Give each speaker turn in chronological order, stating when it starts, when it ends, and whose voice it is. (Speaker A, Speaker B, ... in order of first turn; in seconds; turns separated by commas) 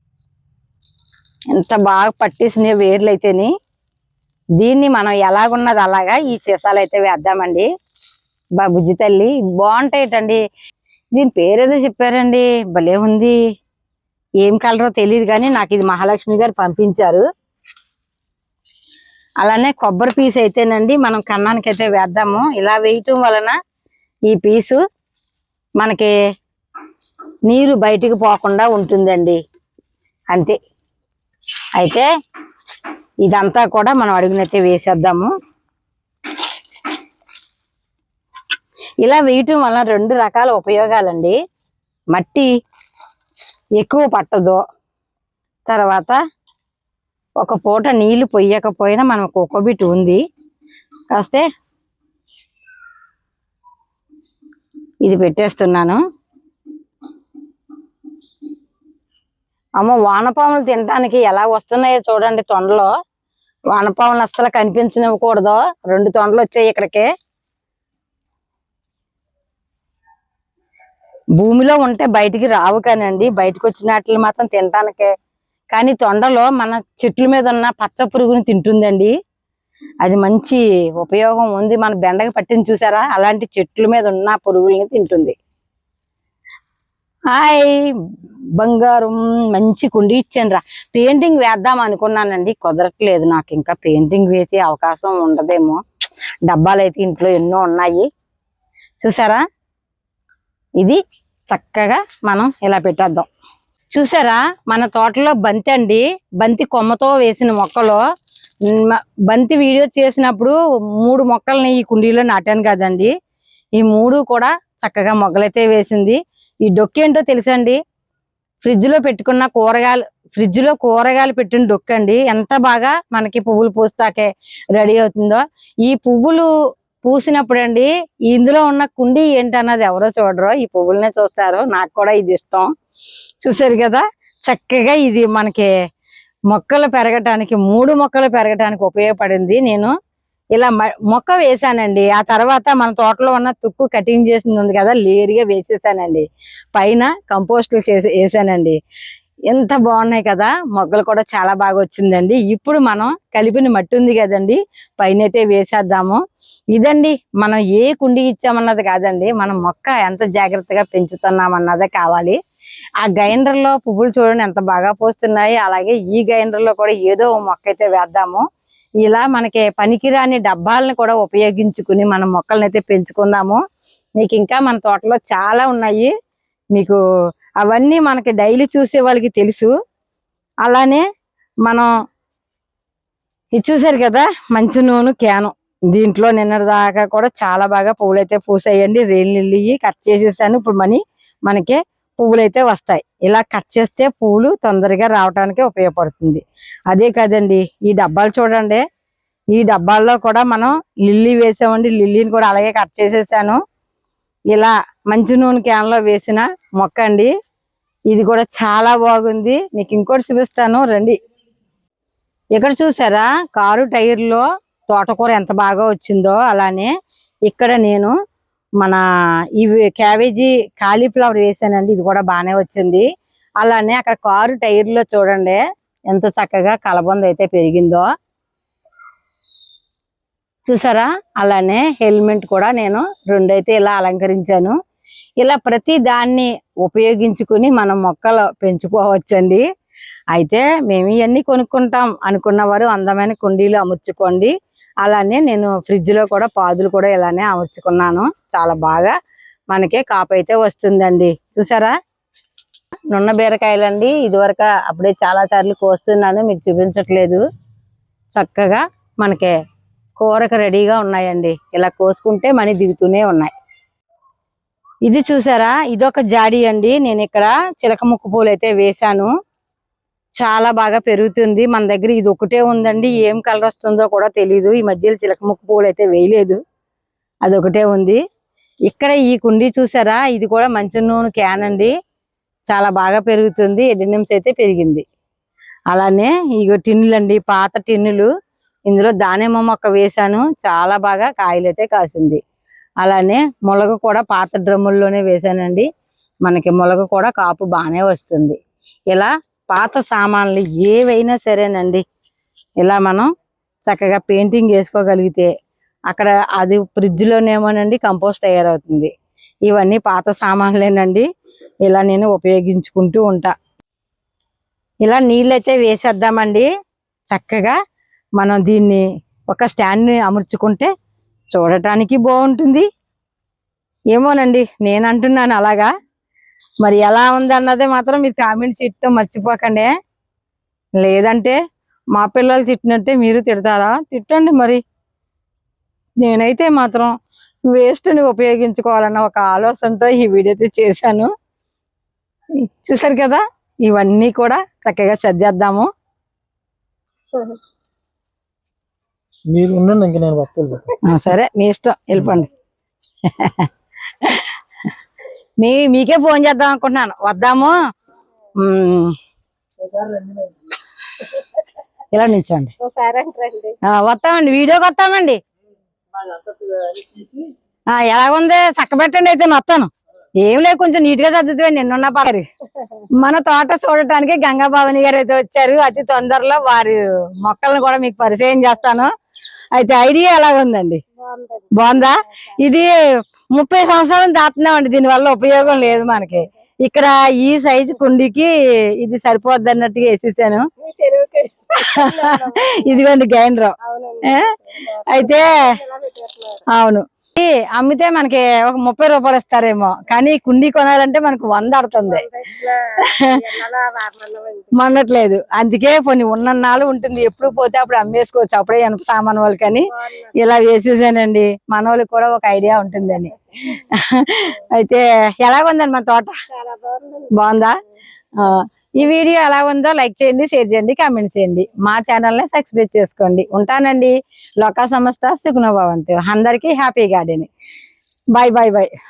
Speaker A: 1.5-3.5, Speaker A: 4.6-7.7, Speaker A: 8.6-10.4, Speaker A: 11.1-13.4, Speaker A: 14.4-17.2, Speaker A: 19.4-23.5, Speaker A: 24.3-24.8, Speaker A: 25.8-26.1, Speaker A: 27.5-29.4, Speaker A: 31.8-32.1, Speaker A: 33.2-35.3, Speaker A: 39.0-41.4, Speaker A: 42.1-42.5, Speaker A: 43.8-44.6, Speaker A: 45.7-46.2, Speaker A: 47.4-50.2, Speaker A: 51.1-51.4, Speaker A: 55.0-56.0, Speaker A: 59.8-62.9, Speaker A: 63.7-67.1, Speaker A: 71.4-75.1, Speaker A: 75.7-79.1, Speaker A: 80.0-85.3, Speaker A: 87.3-87.9, Speaker A: 88.6-95.8, Speaker A: 96.5-98.1, Speaker A: 99.0-99.4, Speaker A: 101.5-103.3, Speaker A: 103.9-108.0, Speaker A: 108.7-113.1, Speaker A: 113.8-117.8, Speaker A: 118.6-126.5, Speaker A: 127.0-132.7, Speaker A: 133.4-135.7, Speaker A: 136.5-139.9, Speaker A: 140.5-148.8, Speaker A: 149.5-156.2, Speaker A: 156.7-162.4, Speaker A: 163.0-168.4, Speaker A: 169.0-173.6, Speaker A: 174.2-176.1, Speaker A: 176.7-177.0, Speaker A: 177.6-179.7, Speaker A: 180.6-181.0, Speaker A: 181.6-181.9, Speaker A: 183.5-198.8, Speaker A: 199.5-203.6, Speaker A: 204.5-207.3, Speaker A: 208.1-211.1, Speaker A: 212.5-216.9, Speaker A: 217.5-218.2, Speaker A: 219.6-223.0, Speaker A: 223.6-228.1, Speaker A: 230.7-234.7, Speaker A: 235.4-239.6, Speaker A: 240.3-244.5, Speaker A: 245.0-249.1, Speaker A: 249.7-251.9, Speaker A: 253.1-257.4, Speaker A: 258.3-259.5, Speaker A: 260.2-263.5, Speaker A: 265.1-269.3, Speaker A: 270.4-276.6, Speaker A: 277.4-278.2, Speaker A: 278.9-281.9, Speaker A: 282.7-285.0, Speaker A: 285.9-288.3, Speaker A: 288.9-292.4, Speaker A: 293.0-295.9, Speaker A: 296.4-298.6, Speaker A: 299.1-302.0, Speaker A: 302.8-303.3, Speaker A: 303.9-305.5, Speaker A: 306.1-309.1, Speaker A: 309.6-311.3, Speaker A: 311.8-313.5, Speaker A: 315.0-316.7, Speaker A: 317.3-317.8, Speaker A: 318.4-320.9, Speaker A: 321.5-322.9, Speaker A: 324.1-325.9, Speaker A: 326.8-329.9, Speaker A: 331.0-331.6, Speaker A: 332.1-334.8, Speaker A: 336.2-337.1, Speaker A: 337.7-341.3, Speaker A: 342.6-345.9, Speaker B: 349.5-350.9, Speaker A: 351.0-352.5, Speaker A: 353.2-353.7, Speaker A: 354.2-354.5, Speaker A: 355.6-357.8, Speaker A: 358.6-359.1, Speaker B: 359.8-360.5, Speaker A: 362.1-362.7, Speaker C: 362.8-363.8, Speaker A: 363.9-365.4, Speaker B: 366.8-367.2, Speaker A: 367.9-372.4, Speaker A: 373.2-379.1, Speaker A: 379.7-381.0, Speaker C: 381.2-382.6, Speaker A: 381.7-382.9, Speaker A: 383.5-390.7, Speaker C: 390.8-393.1, Speaker A: 391.8-394.6, Speaker C: 393.8-396.6, Speaker A: 395.1-395.8, Speaker A: 396.7-402.2, Speaker C: 402.0-404.7, Speaker A: 403.0-403.4, Speaker A: 404.7-416.4, Speaker C: 409.9-410.6, Speaker C: 416.5-417.7, Speaker A: 417.3-417.8, Speaker A: 418.3-427.5, Speaker A: 428.3-428.9